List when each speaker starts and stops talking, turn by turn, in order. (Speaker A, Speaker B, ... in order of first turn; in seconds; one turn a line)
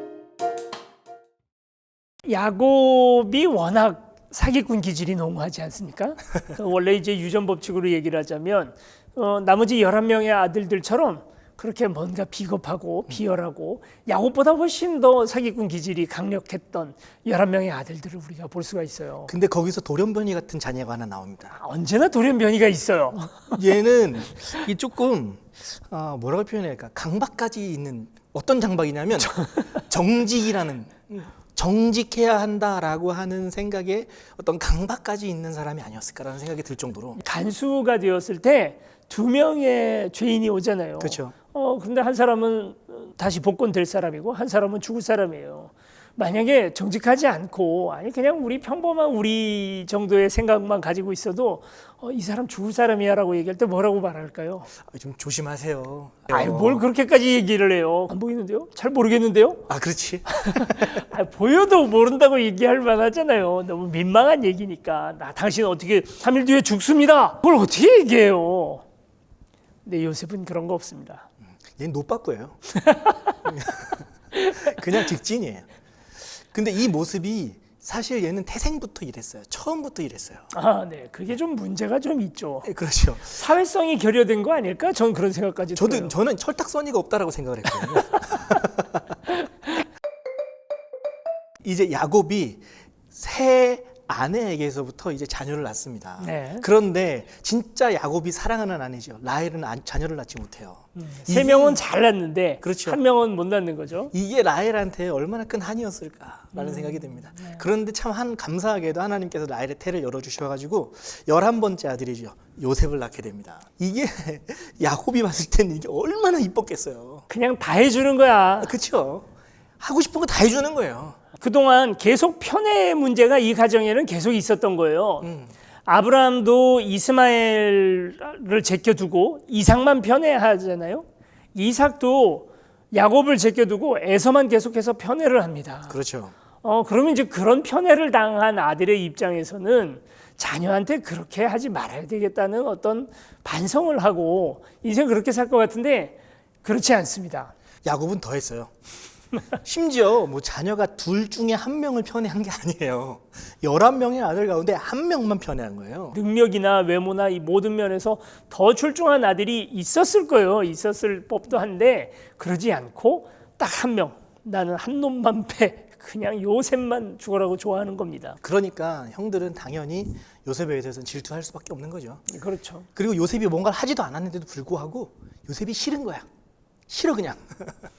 Speaker A: 2.2-19.3
Speaker B: 19.3-21.6
Speaker A: 21.5-23.6
Speaker B: 23.5-37.2
Speaker A: 29.4-29.6
Speaker A: 37.2-54.7
Speaker B: 41.0-41.3
Speaker B: 54.8-56.8
Speaker A: 56.3-59.7
Speaker B: 59.7-61.0
Speaker A: 60.3-68.8
Speaker A: 69.8-71.3
Speaker B: 71.7-72.6
Speaker A: 72.7-73.3
Speaker B: 73.4-75.7
Speaker A: 74.4-74.7
Speaker B: 76.2-80.5
Speaker A: 80.5-82.7
Speaker B: 82.6-83.4
Speaker A: 83.3-86.2
Speaker B: 85.8-89.0
Speaker B: 91.6-101.8
Speaker A: 96.2-96.7
Speaker A: 101.0-104.1
Speaker B: 102.6-103.0
Speaker B: 104.1-117.3
Speaker A: 106.5-107.6
Speaker A: 117.3-118.7
Speaker B: 118.6-119.3
Speaker B: 119.8-121.2
Speaker A: 121.4-125.3
Speaker B: 125.2-125.5
Speaker A: 125.8-136.0
Speaker B: 135.9-136.3
Speaker A: 136.6-147.5
Speaker B: 147.8-148.7
Speaker B: 149.5-156.2
Speaker A: 156.1-168.4
Speaker B: 168.4-172.2
Speaker A: 172.3-172.9
Speaker B: 172.9-176.2
Speaker B: 176.9-177.7